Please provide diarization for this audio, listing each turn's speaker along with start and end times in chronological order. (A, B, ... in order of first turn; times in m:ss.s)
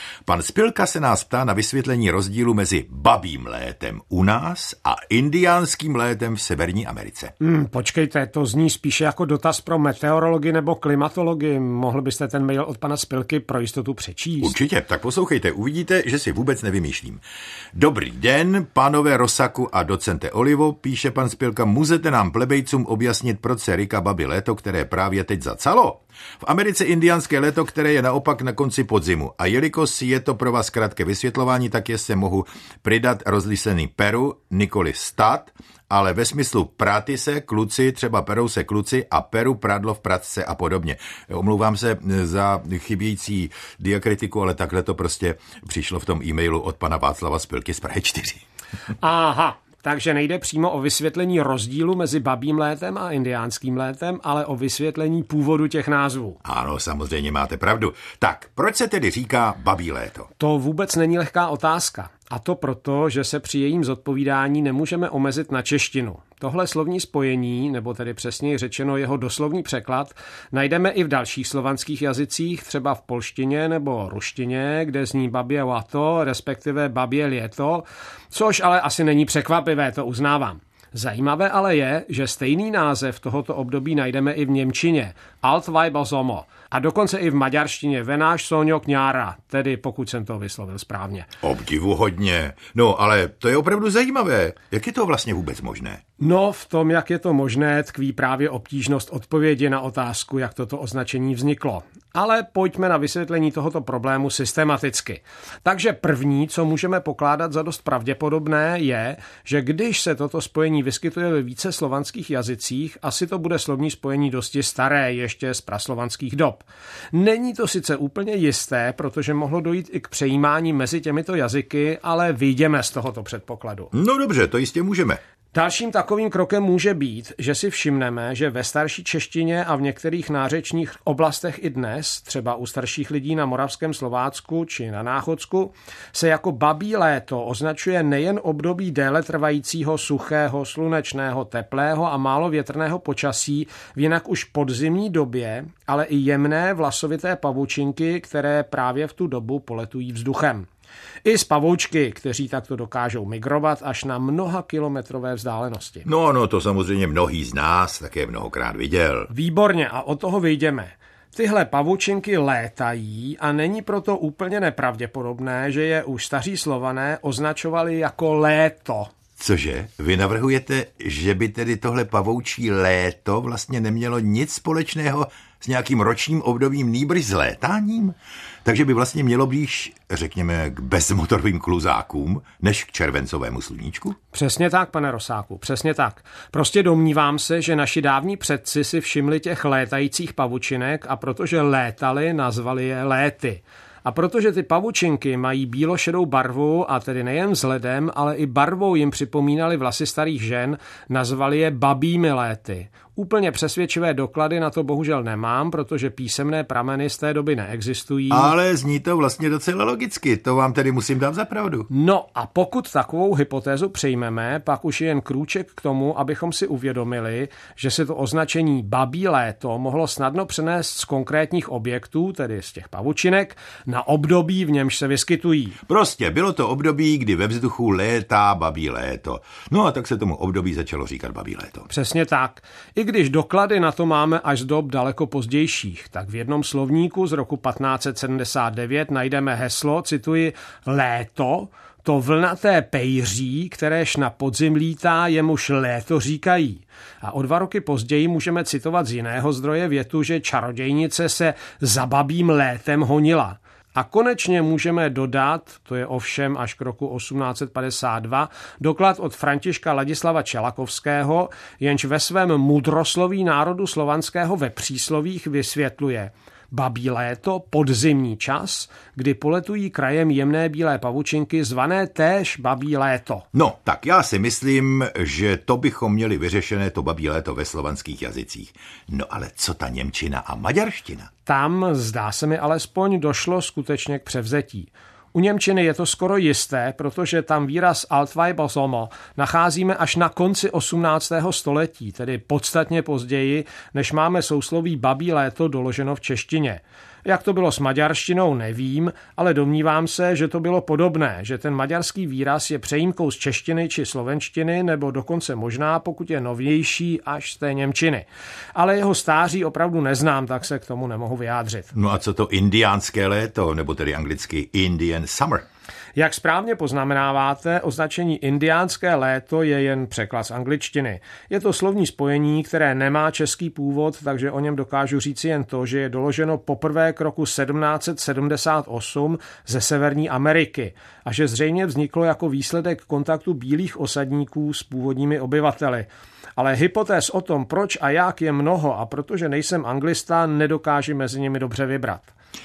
0:00.2-0:07.3 A
0:07.4-0:14.5 B
0:14.4-0:17.2 A
0:17.8-0:48.4 A
0:49.0-0:56.4 B
0:56.4-1:00.3 A
1:00.4-1:31.3 B
1:31.4-1:36.0 A
1:36.2-2:03.9 B
2:03.9-2:05.2 A
2:05.5-2:30.7 B
2:31.2-2:36.1 B
2:36.0-2:39.3 A
2:39.3-2:49.1 B
2:49.4-3:04.2 A
3:04.3-3:28.5 B
3:28.3-3:31.9 A
3:31.9-3:45.8 B
3:45.9-3:51.9 A
3:51.9-4:33.5 B
4:33.5-4:41.3 A
4:41.5-5:11.9 B
5:11.9-5:15.6 A
5:16.2-5:42.3 B